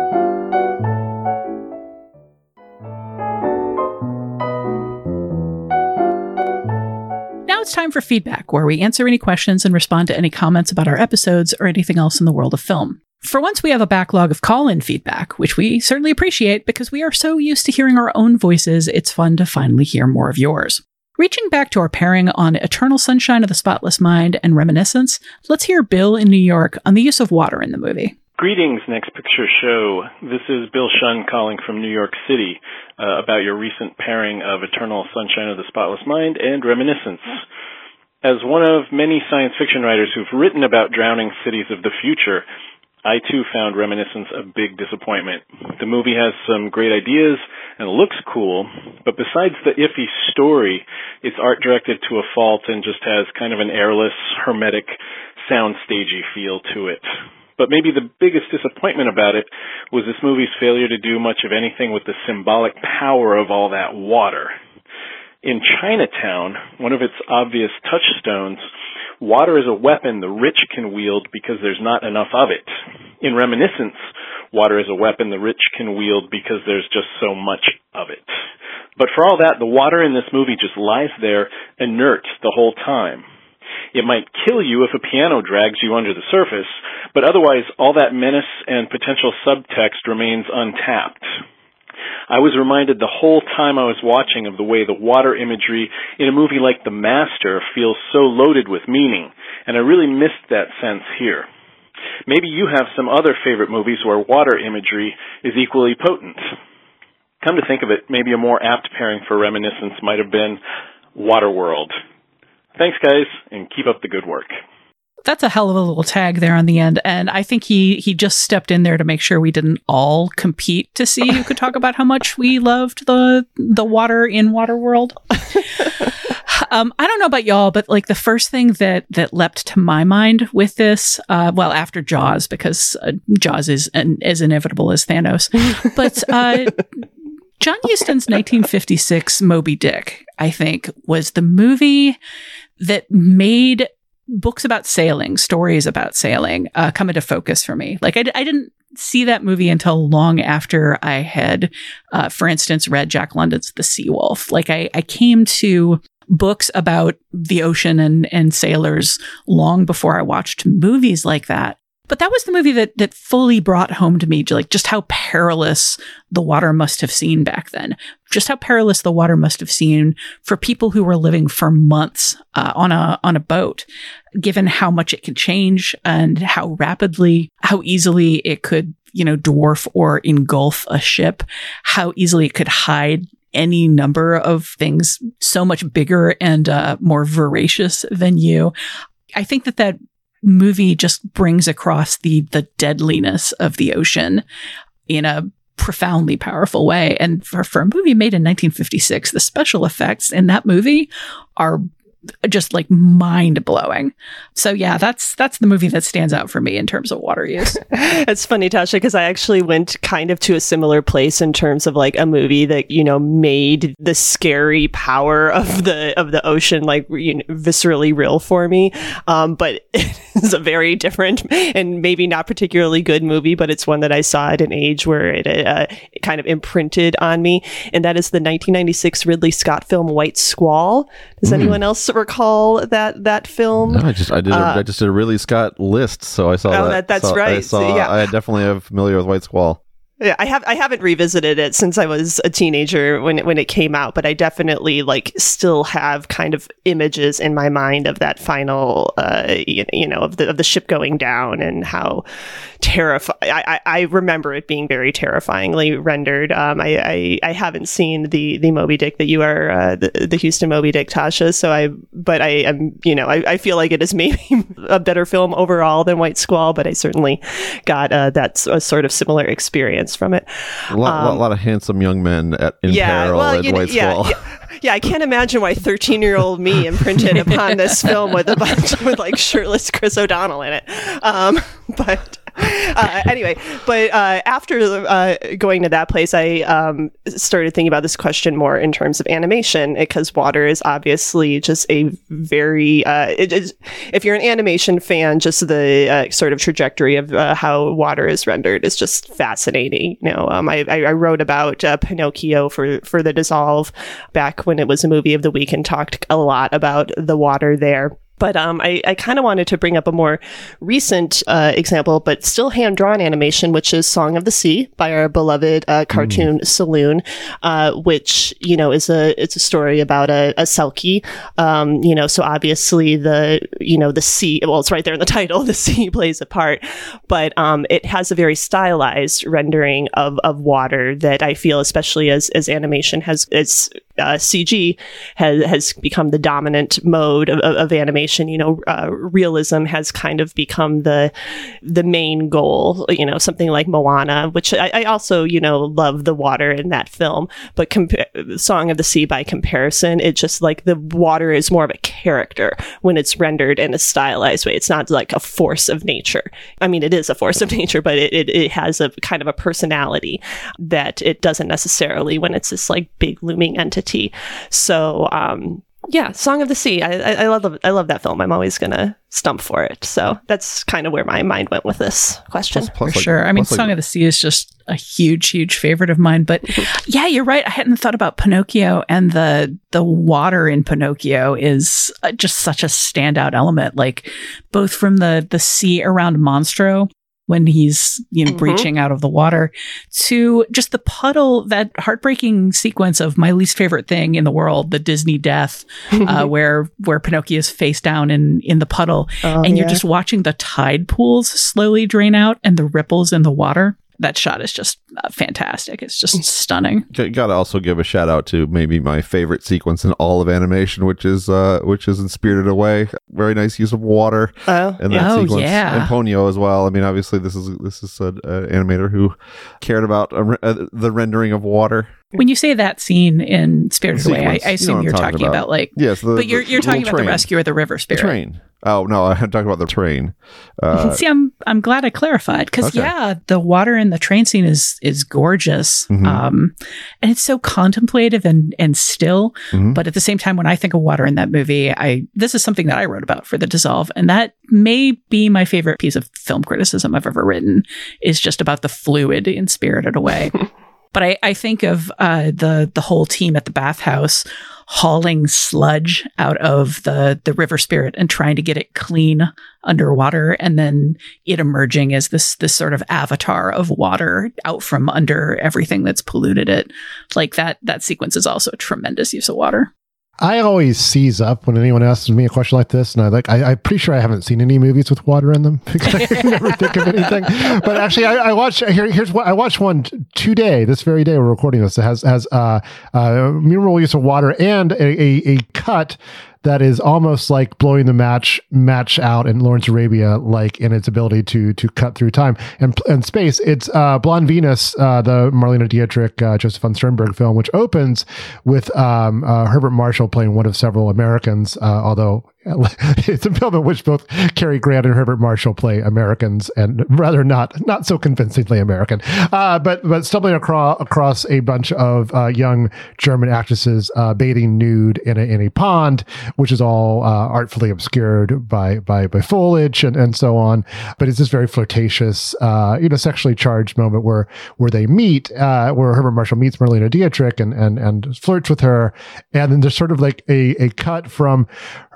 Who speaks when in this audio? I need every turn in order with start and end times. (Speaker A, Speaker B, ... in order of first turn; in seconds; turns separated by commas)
Speaker A: 7.5-28.1, Speaker B: 28.4-37.4, Speaker B: 38.2-42.5, Speaker B: 43.0-57.0, Speaker B: 57.6-64.5, Speaker B: 65.4-68.6, Speaker B: 69.2-72.7, Speaker B: 73.2-74.0, Speaker B: 74.5-78.3, Speaker B: 79.0-83.2, Speaker B: 83.9-91.2, Speaker B: 92.3-101.5, Speaker B: 102.3-106.4, Speaker B: 107.4-110.6, Speaker B: 111.2-111.9, Speaker B: 112.8-114.5, Speaker A: 115.2-125.2, Speaker A: 126.3-136.9, Speaker A: 137.6-142.2, Speaker A: 142.8-188.7, Speaker A: 189.4-194.4, Speaker A: 195.1-201.9, Speaker A: 202.4-207.8, Speaker C: 207.9-234.8, Speaker D: 231.5-231.8, Speaker D: 233.8-239.8, Speaker C: 236.7-238.3, Speaker C: 240.2-252.2, Speaker C: 252.8-271.4, Speaker D: 270.9-274.4, Speaker C: 272.9-341.3, Speaker C: 341.8-372.9, Speaker D: 372.7-373.9, Speaker A: 372.9-407.1, Speaker C: 388.5-388.9, Speaker C: 399.4-400.0, Speaker D: 407.1-422.1, Speaker C: 414.7-415.3, Speaker A: 415.1-416.1, Speaker A: 422.4-428.4, Speaker D: 424.1-427.5, Speaker D: 428.1-431.2, Speaker A: 430.9-450.6, Speaker D: 432.8-433.1, Speaker D: 436.1-436.4, Speaker D: 439.7-440.0, Speaker A: 451.1-469.9, Speaker E: 470.4-531.7